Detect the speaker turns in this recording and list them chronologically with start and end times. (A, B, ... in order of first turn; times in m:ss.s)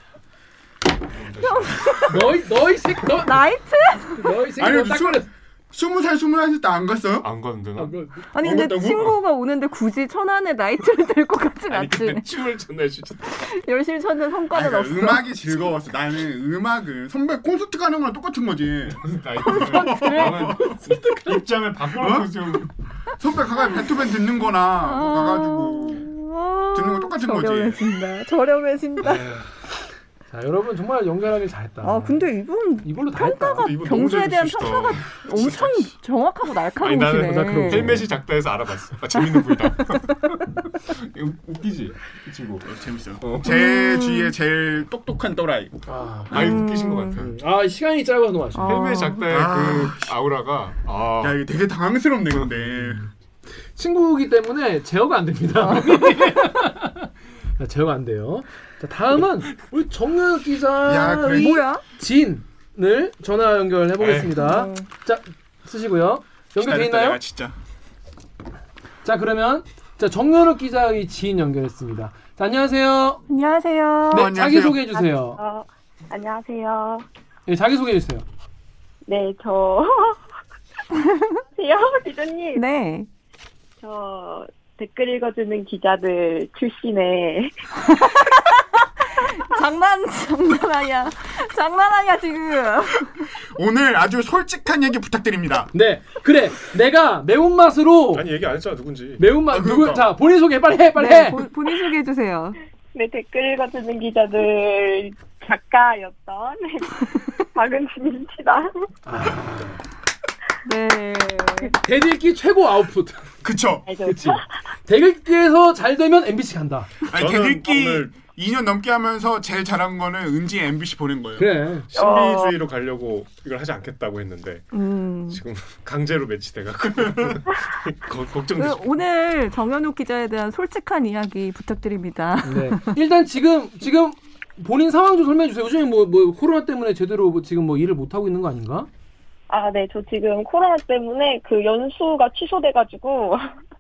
0:01.2-0:02.1 A
0:01.4-0:02.2 B
0:02.1-0:03.4 C
0:03.2-0:04.3 B
0:04.2-0:05.3 C
0:04.6-0:07.3 D
0:07.2-0:08.0 A
0:07.8-0:08.2 C
0:08.3-0:12.3 B
0:08.4-0:09.1 D
0:11.7-0:13.4 A
0:13.4-0:15.7 B
0:14.5-0:20.8 D
0:18.9-0:22.7 A
0:19.5-0:20.5 B
0:22.0-0:26.1 D
0:24.8-0:29.2 B
0:26.7-0:27.8 D
0:30.3-0:32.3 C
0:31.8-0:38.0 B
0:32.8-0:33.7 C
0:33.6-0:35.9 A
0:36.8-0:42.7 A
0:37.2-0:38.1 C
0:39.2-0:39.5 B
0:42.6-0:45.8 D
0:43.2-0:43.6 A
0:43.4-0:44.3 B
0:45.9-0:46.6 C
0:46.3-0:47.3 A
0:46.3-0:47.2 B
0:47.2-0:48.8 C
0:48.6-0:49.3 B
0:48.6-0:51.4 A
0:49.3-0:50.2 D
0:51.2-0:53.0 D
0:52.7-0:53.1 C
0:53.8-1:07.2 C
1:00.8-1:01.6 D
1:01.2-1:01.8 B
1:04.0-1:04.3 A
1:04.4-1:04.9 B
1:06.6-1:07.6 D
1:09.0-1:13.2 C
1:13.3-1:14.3 B
1:14.1-1:15.4 C
1:14.1-1:14.9 D
1:14.9-1:17.0 E
1:17.5-1:18.2 C
1:19.1-1:20.2 E
1:21.0-1:21.3 B
1:21.5-1:22.6 E
1:22.6-1:23.1 B
1:23.8-1:27.6 E
1:27.9-1:33.2 B
1:33.6-1:35.7 D
1:35.7-1:38.3 C
1:38.1-1:39.4 A
1:39.2-1:41.4 C
1:39.5-1:40.1 D
1:41.0-1:42.6 B
1:42.9-1:48.7 E
1:49.1-1:49.8 C
1:50.6-1:51.8 B
1:51.8-1:53.3 C
1:53.4-1:53.8 D
1:53.9-1:54.5 E
1:54.0-1:56.9 C
1:57.1-2:01.5 D
1:57.2-1:58.2 A
2:01.4-2:01.9 C
2:01.9-2:04.7 A
2:01.9-2:02.5 E
2:04.7-2:05.4 B
2:05.3-2:08.8 A
2:08.6-2:13.0 B
2:12.4-2:18.9 C
2:19.5-2:23.5 E